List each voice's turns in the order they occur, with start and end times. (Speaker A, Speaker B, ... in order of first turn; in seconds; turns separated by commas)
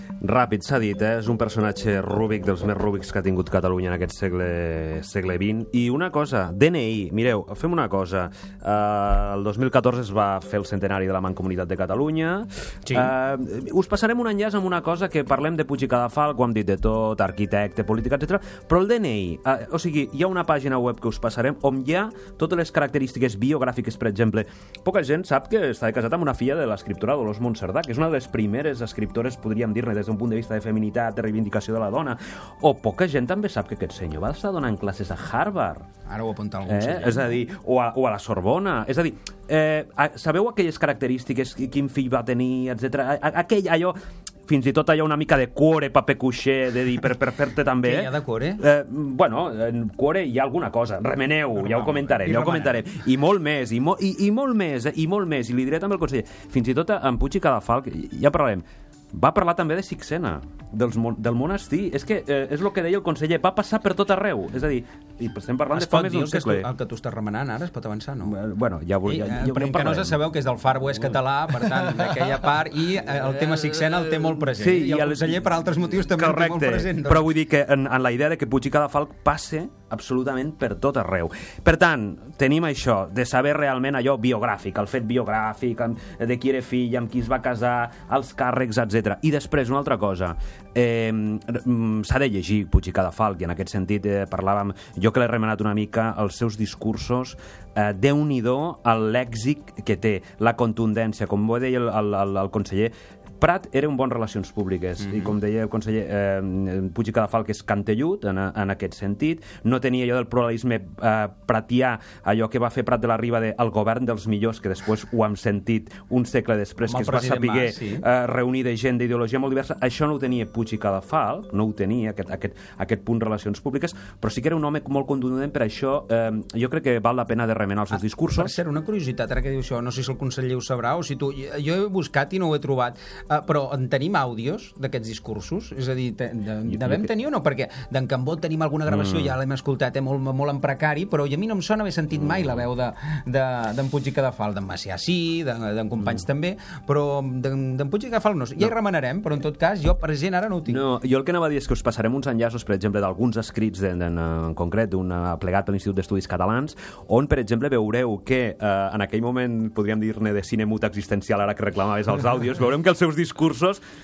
Speaker A: 0.2-35.9, Speaker B: 36.1-37.4, Speaker A: 36.7-44.0, Speaker A: 44.5-66.7, Speaker B: 47.8-48.6, Speaker B: 51.6-52.8, Speaker B: 65.7-68.3, Speaker A: 68.2-70.2, Speaker B: 69.0-77.2, Speaker A: 73.5-128.5, Speaker B: 116.8-118.0, Speaker B: 127.9-150.8, Speaker A: 136.7-137.1, Speaker A: 138.9-139.3, Speaker A: 142.2-142.6, Speaker A: 150.7-163.8